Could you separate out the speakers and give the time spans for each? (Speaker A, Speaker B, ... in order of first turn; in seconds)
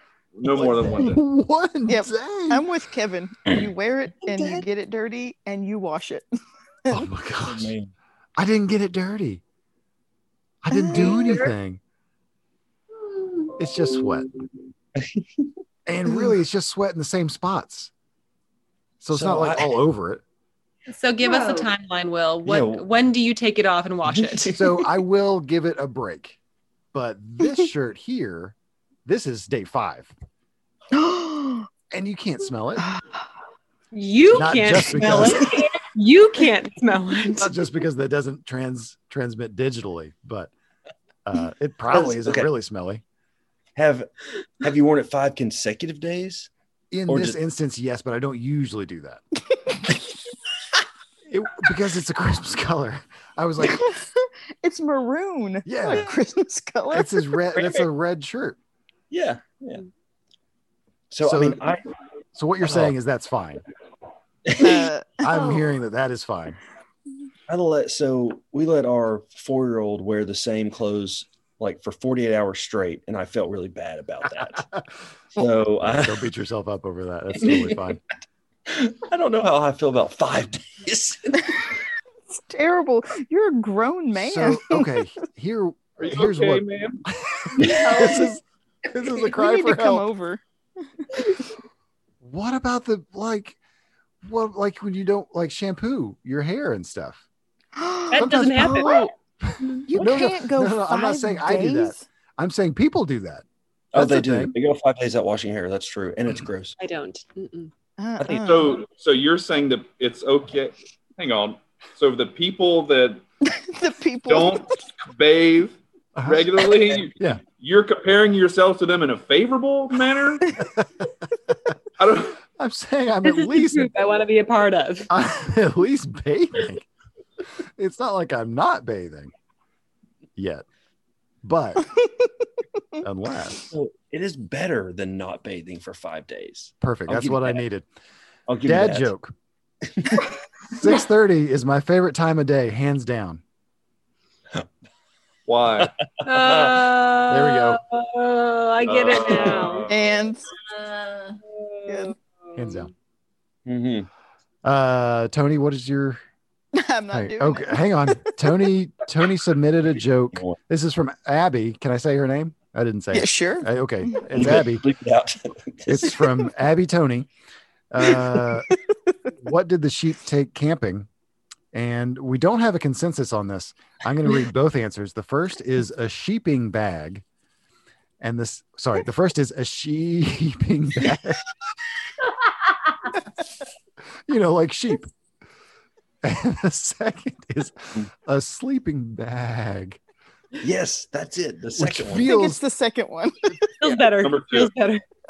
Speaker A: 0.4-1.2, 86.0-87.0, 108.4-113.2, 114.2-120.6, 122.0-122.4, 145.5-145.9, 148.8-149.9, 193.9-194.7
Speaker B: 0.5-1.1, 4.3-4.6, 7.4-7.9, 14.9-15.5, 19.1-19.8, 22.4-22.9, 24.1-24.8, 35.1-35.4, 41.9-42.5, 43.8-44.1, 44.6-46.5, 47.1-47.4, 59.1-59.9, 61.1-61.8, 62.6-62.9, 64.5-64.8, 67.5-74.7, 75.3-76.2, 77.4-77.9, 78.7-81.6, 87.7-88.0, 99.9-100.2, 103.9-106.8, 108.2-108.6, 133.7-137.6, 138.5-139.1, 139.9-140.3, 145.8-146.9, 153.7-154.1, 164.3-166.2, 190.6-192.3
Speaker C: 0.9-2.6, 6.9-7.7, 8.4-9.4, 10.6-11.8, 13.6-14.2, 15.9-17.9, 19.0-20.2, 24.5-26.4, 26.9-28.5, 29.1-30.1, 31.9-32.9, 34.3-35.5, 37.4-40.5, 41.2-43.0, 46.9-49.2, 51.3-53.9, 55.6-56.1, 56.9-58.6, 61.2-61.6, 62.4-63.6, 65.2-66.6, 74.2-74.8, 75.8-78.0, 84.1-90.1, 92.2-93.6, 94.2-97.2, 98.1-98.9, 99.4-103.4, 103.9-104.5, 116.2-117.4, 120.6-121.0, 122.6-123.9, 125.1-126.9, 127.8-129.3, 130.4-130.6, 131.4-131.9, 133.0-133.7, 136.8-137.9, 138.6-139.3, 140.8-143.4, 147.3-147.8, 152.5-152.9, 154.6-156.2, 157.1-164.8, 165.9-167.3, 167.9-168.7, 169.3-171.1, 171.7-177.2, 178.2-181.4, 184.3-185.1, 186.2-190.0, 191.8-192.6
Speaker D: 1.9-6.2, 10.7-11.4, 30.9-31.7, 53.7-57.3, 64.6-65.4, 82.3-84.9, 89.2-90.4, 91.0-91.3, 97.8-99.1, 99.7-102.0, 108.0-108.8, 113.4-114.6, 149.9-150.4, 151.9-152.1, 156.7-158.3, 163.1-164.2, 192.2-193.7
Speaker E: 13.0-13.6, 21.2-21.7, 65.3-65.7, 87.6-88.3, 150.7-151.4
Speaker F: 20.9-24.6, 33.9-37.5, 98.1-99.1, 106.8-107.7, 123.2-125.1, 146.2-149.9, 151.5-152.9, 193.8-195.0